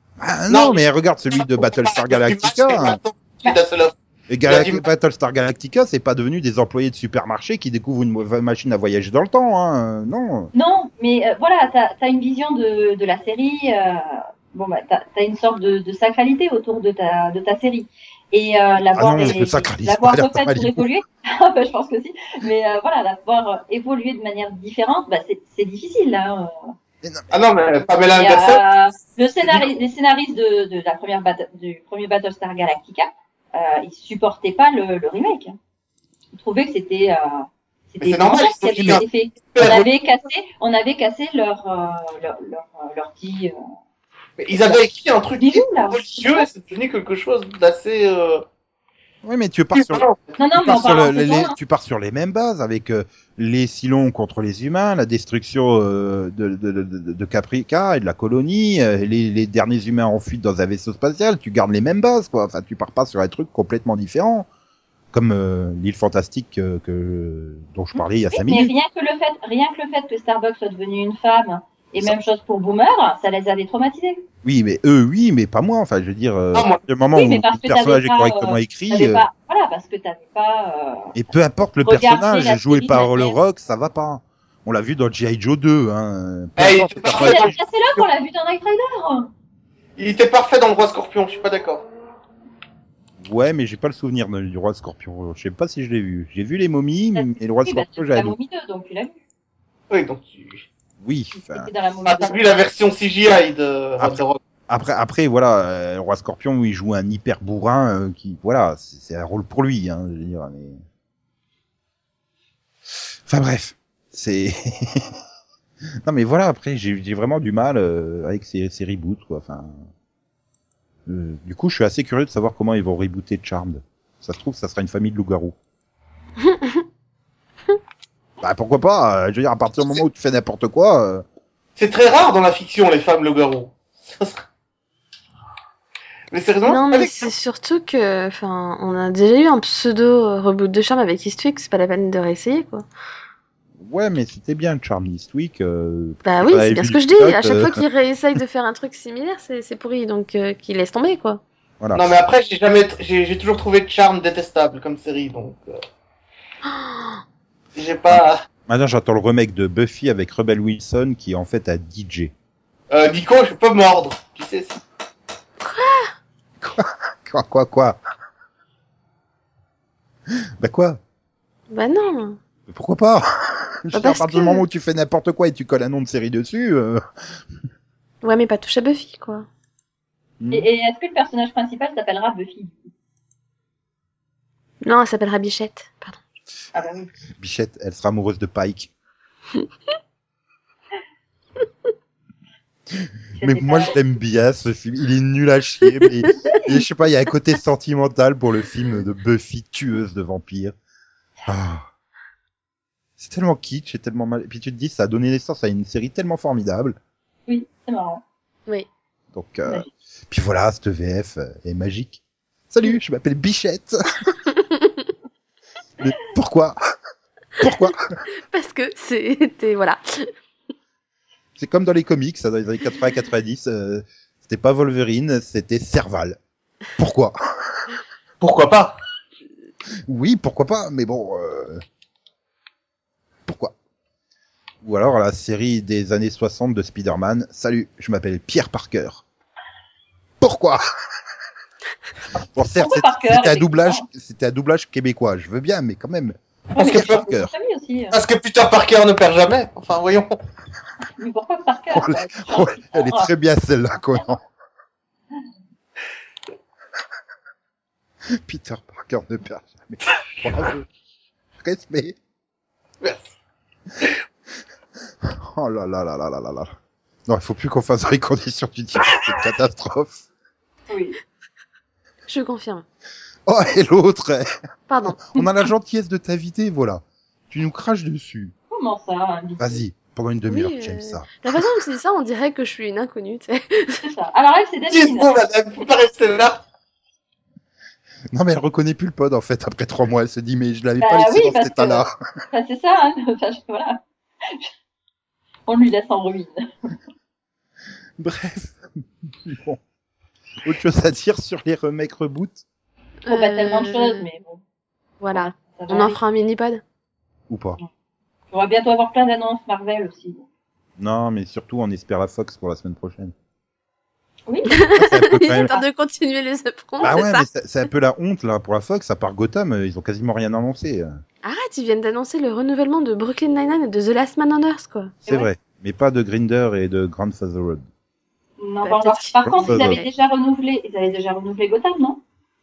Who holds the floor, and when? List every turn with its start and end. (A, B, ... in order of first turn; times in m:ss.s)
0:00.2-0:03.0 A
0:00.5-0:00.8 B
0:01.3-0:04.8 B
0:04.3-0:10.5 A
0:10.5-0:26.7 C
0:18.9-0:20.9 A
0:27.0-0:27.3 A
0:27.3-0:28.6 B
0:28.2-0:35.5 C
0:36.3-0:43.5 C
0:38.0-0:39.9 B
0:38.8-0:39.0 A
0:44.4-0:48.4 B
0:45.4-0:46.5 C
0:49.2-1:04.5 A
0:49.7-0:50.3 B
0:50.4-0:51.6 C
1:05.1-1:08.7 A
1:07.9-1:14.2 C
1:14.4-1:19.2 A
1:16.5-1:16.8 B
1:17.1-1:21.1 C
1:21.1-1:27.5 A
1:21.8-1:23.4 C
1:26.6-1:27.6 B
1:27.1-1:29.3 C
1:30.0-1:31.8 B
1:33.2-1:38.4 A
1:37.1-1:39.1 C
1:39.9-1:40.6 B
1:41.0-1:41.7 A
1:41.3-1:42.4 C
1:42.0-1:44.4 B
1:44.0-1:50.8 A
1:53.3-1:55.1 A
1:56.0-1:59.8 A
2:01.0-2:05.6 A
2:06.4-2:06.8 D
2:08.4-2:11.2 A
2:11.8-2:14.4 B
2:16.3-2:17.3 B
2:16.6-2:22.8 D
2:23.8-2:27.8 A
2:26.2-2:31.4 D
2:31.8-2:32.1 A
2:31.9-2:35.8 B
2:36.6-2:37.2 D
2:37.7-2:38.4 B
2:38.1-2:42.3 A
2:42.9-2:44.8 B
2:45.6-2:46.1 D
2:46.6-2:48.0 A
2:50.6-2:51.0 A
2:51.7-2:52.4 D
2:52.7-2:57.0 A
2:53.9-2:54.6 D
2:58.2-2:59.4 D
3:00.4-3:00.7 A
3:00.5-3:02.9 C
3:04.8-3:06.2 D
3:06.7-3:07.1 C
3:07.4-3:08.9 A
3:13.0-3:20.7 A
3:13.4-3:13.9 C
3:16.4-3:16.7 C
3:21.4-3:21.8 A
3:23.2-3:27.0 A
3:27.5-3:28.2 C
3:29.3-3:34.3 A
3:36.0-3:36.8 A
3:37.6-3:38.2 A
3:38.5-3:40.3 D
3:41.6-3:46.4 A
3:47.0-3:47.8 A
3:48.4-3:49.0 B
3:50.1-3:51.8 A
3:53.4-3:53.7 A
3:54.8-3:59.2 A
4:00.4-4:00.8 A
4:02.5-4:07.5 A
4:02.6-4:04.0 C
4:06.7-4:08.2 C
4:06.8-4:07.1 B
4:08.1-4:10.3 B
4:11.2-4:13.3 C
4:11.9-4:14.4 A
4:18.4-4:20.9 A
4:21.6-4:22.2 A
4:23.0-4:23.3 B
4:25.2-4:26.7 A
4:27.3-4:30.2 A
4:30.9-4:31.2 C
4:32.3-4:32.8 D
4:33.5-4:34.4 A
4:34.9-4:35.3 D
4:35.2-4:38.5 A
4:38.7-4:39.8 C
4:39.6-4:41.4 A
4:40.5-4:44.1 D
4:44.0-4:45.3 C
4:44.9-4:46.6 B
4:48.3-4:52.1 A
4:51.0-4:54.7 C
4:55.7-4:56.9 C
4:58.2-4:59.8 A
5:00.6-5:02.6 A
5:03.2-5:04.2 D
5:03.3-5:04.6 C
5:05.2-5:06.8 D
5:05.3-5:06.2 C
5:07.5-5:07.8 A
5:08.5-5:10.4 C
5:11.0-5:13.3 A
5:14.5-5:14.9 C
5:14.7-5:17.4 D
5:14.9-5:15.7 A
5:17.0-5:21.1 A
5:21.4-5:25.2 D
5:25.2-5:27.8 A
5:28.6-5:32.2 C
5:28.8-5:30.1 D
5:29.4-5:30.0 A